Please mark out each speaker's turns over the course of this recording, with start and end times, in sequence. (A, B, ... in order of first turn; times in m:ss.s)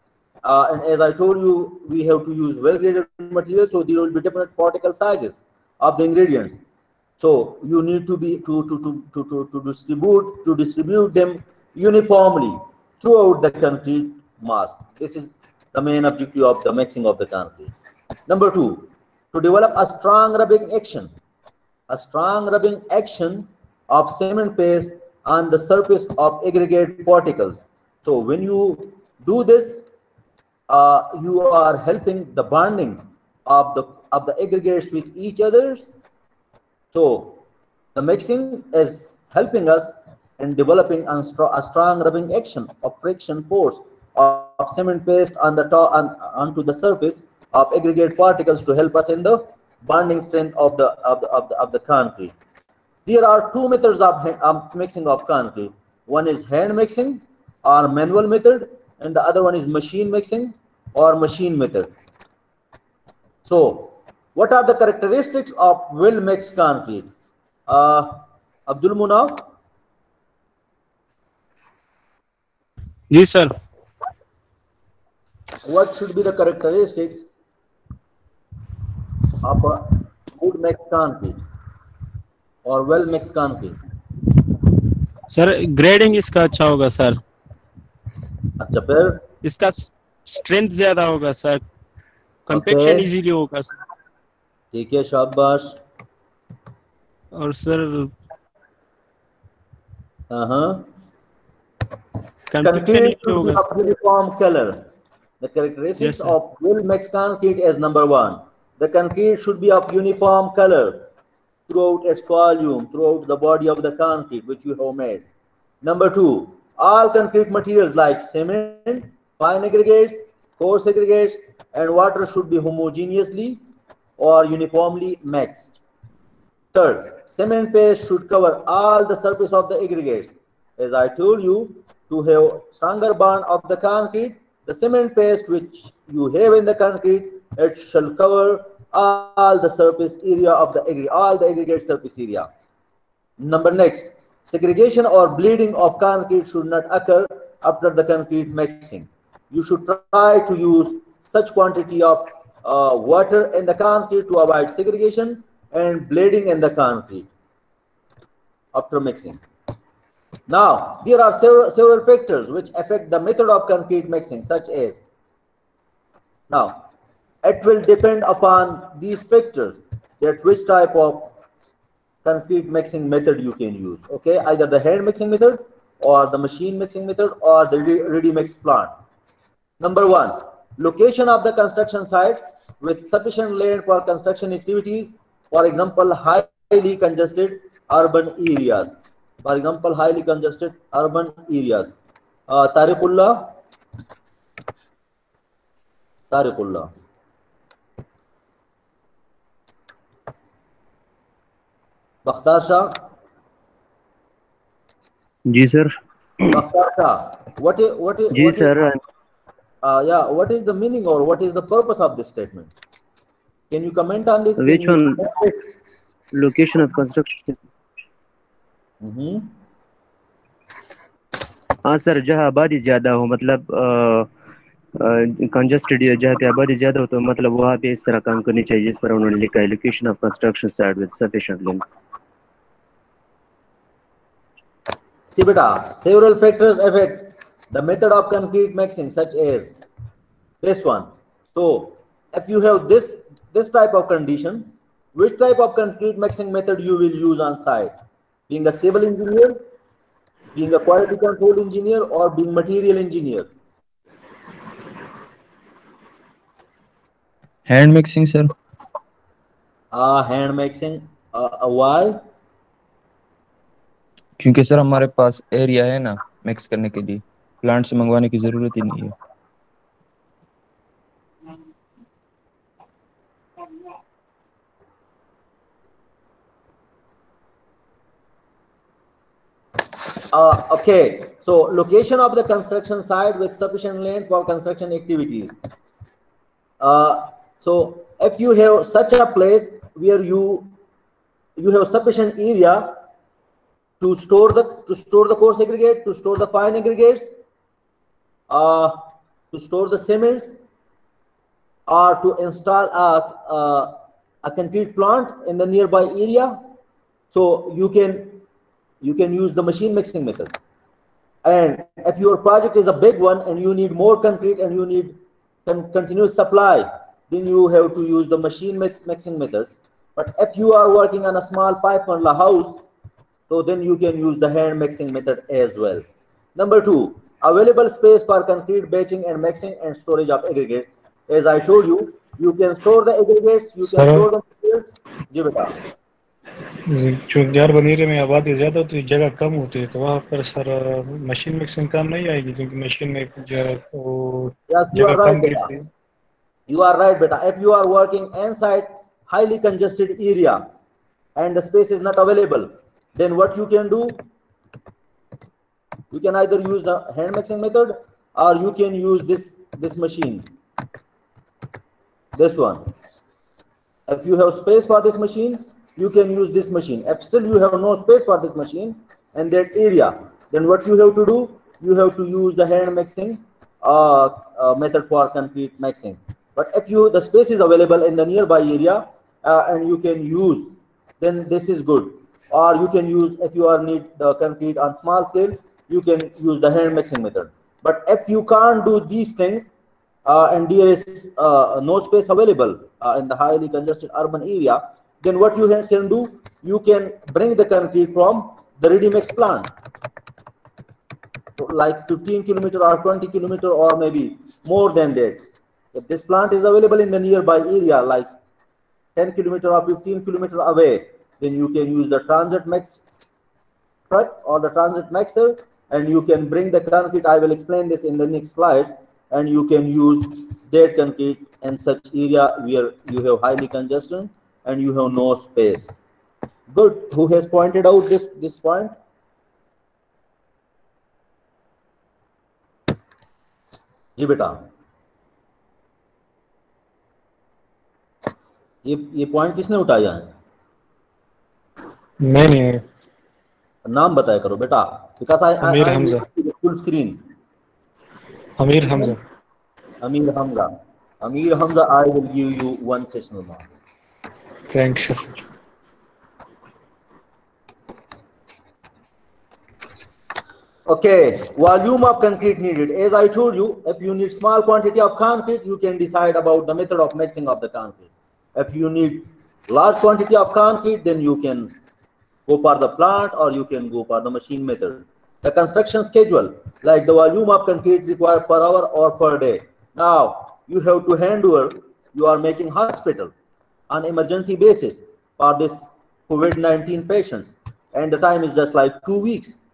0:00.4-0:06.6 A
0:07.2-0:17.7 A
0:18.3-0:21.1 A
0:21.9-0:29.8 A
0:30.7-0:35.9 A
0:36.9-0:37.4 A
0:38.0-0:52.4 A
0:53.1-1:01.9 A
1:03.5-1:07.1 A
1:07.7-1:09.5 A
1:13.1-1:13.5 B
1:15.7-1:17.2 A
1:19.4-1:21.4 A
1:22.6-1:23.8 A
1:25.3-1:27.2 B
1:28.6-1:29.2 A
1:29.4-1:31.6 B
1:32.5-1:33.8 B
1:32.5-1:33.1 A
1:34.7-1:35.8 A
1:37.4-1:38.1 B
1:40.3-1:40.9 A
1:42.5-1:43.6 B
1:42.6-1:44.8 A
1:45.4-1:51.1 A
1:46.0-1:46.3 B
1:51.7-1:55.2 A
1:55.8-2:03.6 A
2:04.2-2:05.8 A
2:06.7-2:22.5 A
2:23.4-2:37.3 A
2:38.7-2:39.4 A
2:40.5-2:45.0 A
2:46.5-2:46.8 A
2:47.4-2:51.3 A
2:52.2-2:58.9 A
2:59.8-3:11.9 A
3:12.5-3:13.5 A
3:16.3-3:16.9 A
3:22.3-3:23.0 A
3:25.5-3:25.9 C
3:26.5-3:28.7 A
3:28.3-3:29.0 C
3:29.8-3:32.7 A
3:33.7-3:35.4 A
3:34.6-3:35.6 C
3:36.3-3:37.6 C
3:39.0-3:39.5 A
3:41.8-3:44.3 C
3:45.0-3:51.8 C
3:55.3-3:59.8 A
4:00.6-4:07.9 A
4:08.5-4:09.6 A
4:10.6-4:13.5 A
4:17.7-4:18.5 D
4:19.9-4:22.2 A
4:24.4-4:29.1 D
4:40.3-4:45.5 A
4:46.8-4:50.7 A
4:51.6-4:53.0 A
4:54.0-4:57.3 A
4:58.5-4:59.0 A
4:59.5-5:00.6 A
5:01.9-5:06.6 A
5:07.3-5:08.4 A
5:09.0-5:10.5 A
5:11.4-5:22.8 A
5:23.5-5:26.0 A
5:26.6-5:35.8 A
5:33.8-5:34.3 E
5:36.9-5:45.9 E
5:44.7-5:45.7 A
5:46.7-5:50.6 A
5:51.4-5:54.2 A
5:56.1-6:00.5 A
6:02.4-6:02.8 A
6:04.1-6:29.7 A
6:30.3-6:39.7 A
6:41.6-6:45.4 A
6:46.0-6:48.3 A
6:49.2-6:53.0 A
6:54.1-7:06.0 A
7:06.7-7:08.9 A
7:14.2-7:14.6 A
7:18.8-7:20.3 A
7:22.2-7:22.8 E
7:23.9-7:27.2 A
7:25.6-7:26.3 E
7:28.6-7:29.2 E
7:30.0-7:30.7 A
7:31.2-7:33.7 A
7:34.7-7:35.4 E
7:40.9-7:51.7 A
7:52.5-8:03.3 A
8:03.9-8:09.6 A